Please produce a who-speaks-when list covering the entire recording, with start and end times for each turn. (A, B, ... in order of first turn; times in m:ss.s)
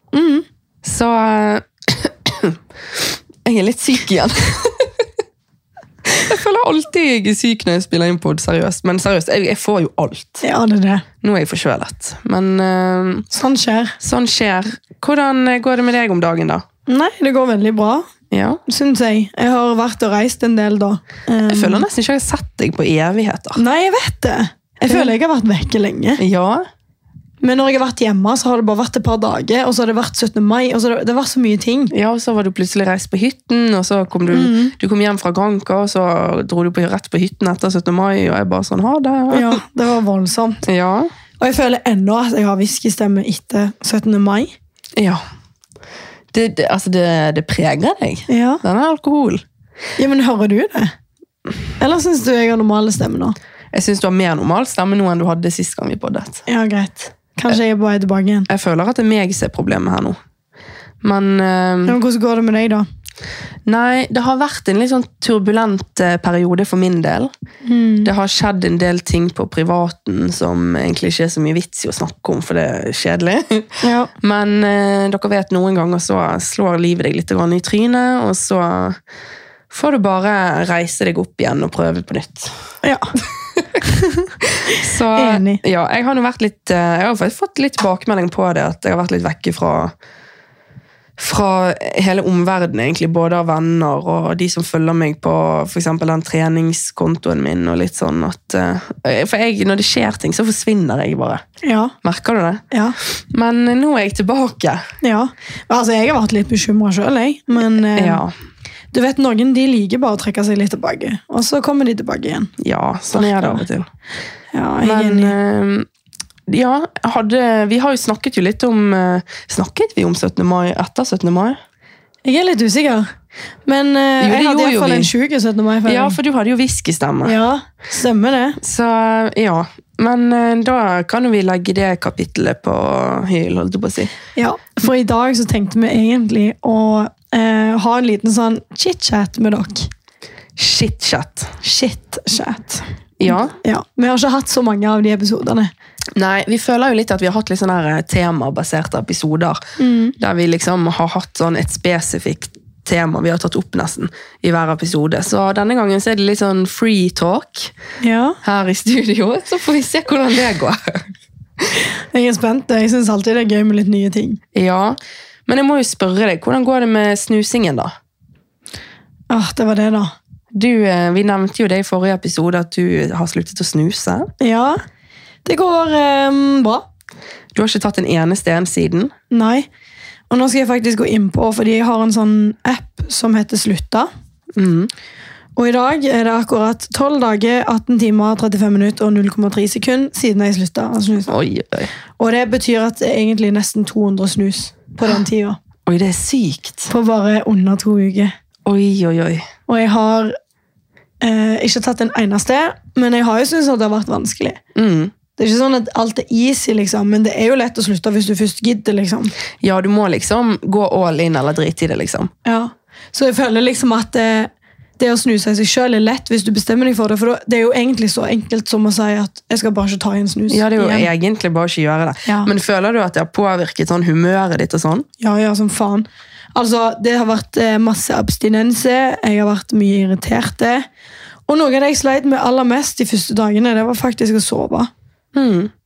0:00.1-0:00.4 A
0:00.8-0:05.0 B
0:06.1-0:10.4 B
0:10.4-0:11.0 A
0:11.2-0:13.3 B
0:13.3-0:14.0 A
0:14.0-0:16.6 B
0:16.9-0:18.1 A
0:18.3-0:18.6 B
0:18.7-0:21.8 A
0:21.5-0:23.6 B
0:23.6-0:26.2 A
0:26.2-0:26.6 B
0:27.4-0:31.9 A
0:31.9-0:39.6 B
0:34.3-0:34.7 A
0:39.3-0:40.6 A
0:40.6-0:41.1 B
0:41.4-0:44.5 A
0:45.0-0:45.2 B
0:46.3-0:49.4 B
0:48.3-0:48.6 A
0:50.0-0:50.9 A
0:51.8-0:53.4 A
0:53.7-0:56.4 B
0:56.5-0:58.5 A
0:58.5-1:00.2 B
1:01.0-1:02.0 B
1:01.8-1:02.8 A
1:03.7-1:07.3 B
1:07.6-1:08.1 A
1:08.0-1:19.0 B
1:13.8-1:14.1 A
1:19.7-1:22.5 B
1:22.8-1:23.1 A
1:23.2-1:23.8 B
1:23.8-1:25.6 A
1:24.4-1:29.9 B
1:31.2-1:41.4 B
1:41.6-1:42.0 A
1:42.0-1:44.8 B
1:42.7-1:43.0 A
1:45.0-1:48.2 A
1:48.0-1:48.3 B
1:48.9-1:52.5 A
1:52.6-1:53.9 B
1:53.1-1:53.6 A
1:54.5-1:55.3 A
1:54.8-1:55.9 B
1:56.5-2:01.6 B
2:02.2-2:03.1 A
2:03.7-2:06.2 A
2:04.2-2:05.1 B
2:05.9-2:07.4 B
2:07.2-2:08.6 A
2:08.6-2:14.1 B
2:14.4-2:19.9 A
2:20.6-2:21.6 B
2:21.6-2:25.7 A
2:23.2-2:23.6 B
2:26.2-2:29.6 B
2:29.8-2:30.1 A
2:30.2-2:37.7 B
2:38.0-2:38.4 A
2:38.4-2:41.1 B
2:42.1-2:44.4 A
2:44.5-2:45.0 B
2:45.5-2:47.9 B
2:49.3-2:50.1 A
2:50.5-2:54.3 B
2:54.4-2:54.8 A
2:55.4-2:56.9 A
2:57.5-2:59.1 B
2:59.3-2:59.7 A
3:00.3-3:04.1 A
3:04.6-3:04.9 B
3:05.6-3:11.4 A
3:11.3-3:11.9 B
3:12.2-3:15.6 A
3:15.9-3:16.9 B
3:16.9-3:18.3 A
3:18.7-3:19.5 B
3:19.7-3:20.3 A
3:21.2-3:24.6 A
3:24.8-3:25.1 B
3:25.4-3:29.3 A
3:29.6-3:32.3 B
3:32.4-3:41.1 A
3:40.5-3:45.1 B
3:45.2-3:50.9 A
3:51.5-3:54.9 A
3:55.4-3:55.7 B